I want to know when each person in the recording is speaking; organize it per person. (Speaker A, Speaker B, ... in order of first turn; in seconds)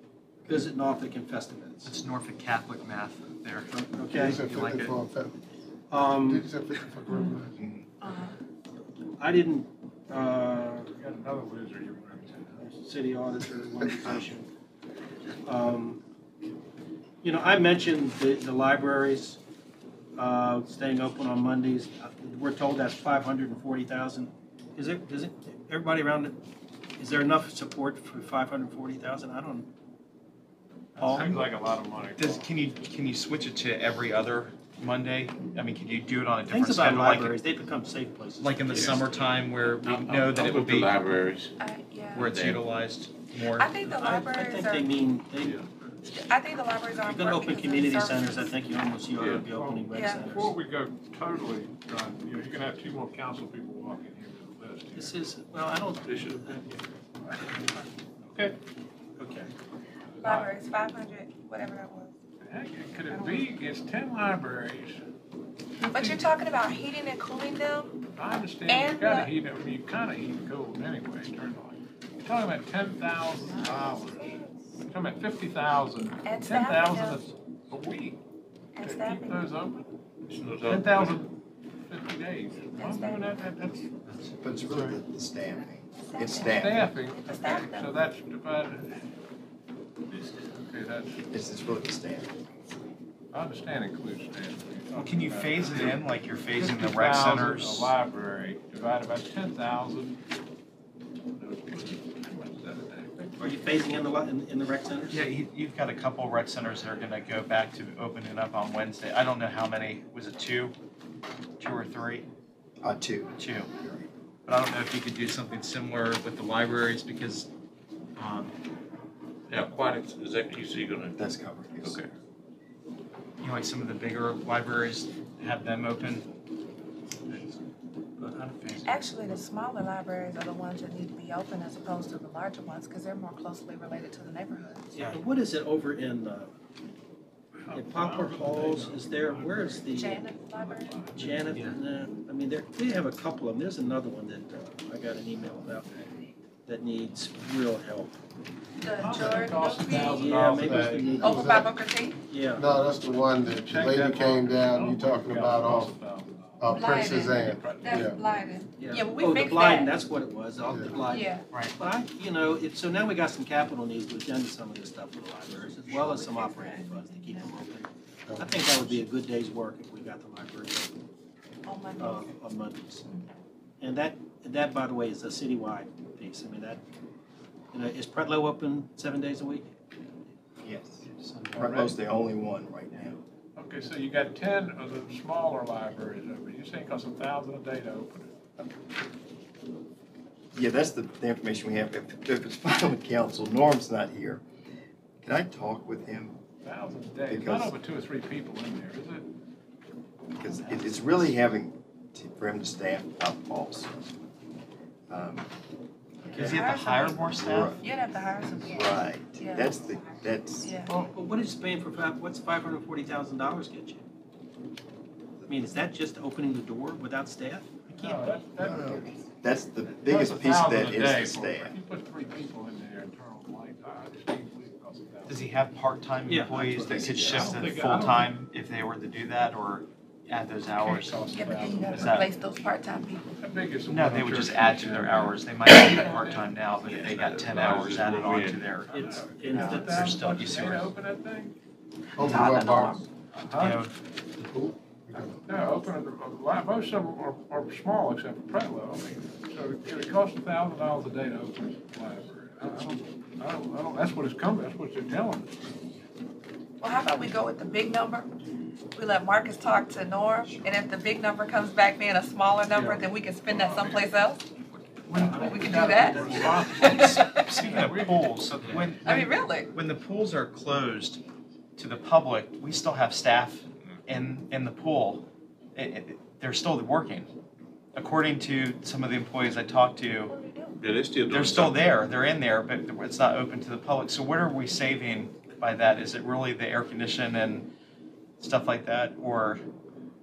Speaker A: 0.5-1.9, 3.7-4.4, 5.9-6.5, 9.2-10.9, 12.6-14.5, 15.4-16.0, 17.2-19.4, 20.2-26.4, 27.0-29.7, 31.0-31.4, 36.5-39.1, 43.9-45.6, 47.0-50.5, 55.0-56.6, 59.2-59.5, 103.4-105.2, 134.9-136.5, 137.7-140.3, 141.2-145.9, 146.7-148.2, 149.9-151.7, 152.3-152.7, 158.8-170.9, 172.0-173.1, 173.8-176.8, 177.7-179.7, 210.9-214.0, 215.5-218.4, 226.3-227.2, 238.9-240.7, 265.1-266.8
Speaker B: 1.9-3.7, 4.3-5.0, 31.0-31.5, 32.2-37.4, 38.4-41.1, 42.2-43.8, 94.9-97.9, 105.1-110.8, 111.6-112.3, 113.4-113.7, 114.5-117.5, 118.2-118.5, 123.4-126.3, 206.3-207.8, 225.3-231.2, 231.9-232.3, 233.9-238.9, 239.5-240.9, 242.2-243.0, 243.6-244.0, 266.9-271.2, 271.8-277.3, 277.9-280.4, 281.3-287.7, 288.4-289.6
Speaker C: 4.1-5.3, 6.2-7.6, 150.6-151.7, 152.5-155.9, 156.6-158.2, 160.7-161.0, 168.3-169.0, 242.2-243.0, 244.4-245.4
Speaker D: 7.6-7.9, 84.4-86.9, 91.3-92.4, 112.8-114.1, 121.2-122.0, 180.6-183.2, 190.5-194.4, 195.2-196.4, 197.3-197.8, 200.4-204.1, 205.1-205.5, 206.2-206.6, 207.3-207.8, 208.7-210.7, 218.6-221.8, 226.8-227.6
Speaker E: 8.0-8.3, 41.6-42.4, 43.5-44.9, 46.1-48.5, 49.9-50.2, 60.2-62.1, 63.1-63.4, 65.8-68.0, 68.7-69.3, 73.5-74.5, 76.0-77.2, 78.8-79.5, 82.8-83.4, 86.1-88.0, 128.8-135.1, 139.9-140.9, 148.8-150.5, 151.2-152.2, 156.7-159.9, 161.0-161.5, 165.9-167.5, 171.7-172.3, 206.3-209.9, 210.6-210.9, 231.2-233.3, 256.8-258.3, 258.9-264.4, 265.3-267.6, 269.0-269.8, 280.3-280.8
Speaker F: 10.9-12.6, 31.0-32.5, 49.2-55.2, 60.2-60.6, 62.4-65.0, 65.8-66.2, 68.2-78.2, 78.8-79.9, 80.7-83.9, 84.7-85.0, 86.5-89.1, 90.6-91.2, 93.3-100.2, 101.3-103.2, 137.6-140.0, 140.5-141.7, 148.8-151.2, 153.7-158.1, 181.6-182.0, 183.6-188.3, 196.6-199.3, 218.0-219.2, 219.9-225.5, 227.3-228.3, 230.8-232.3, 233.4-236.5, 238.9-241.5, 243.3-243.8, 245.5-255.6, 262.7-264.1, 265.1-268.4
Speaker G: 39.8-41.5, 42.1-42.6, 49.2-49.5, 56.1-56.5, 80.3-81.2, 119.5-121.3, 121.8-122.1, 236.8-238.7, 280.8-281.9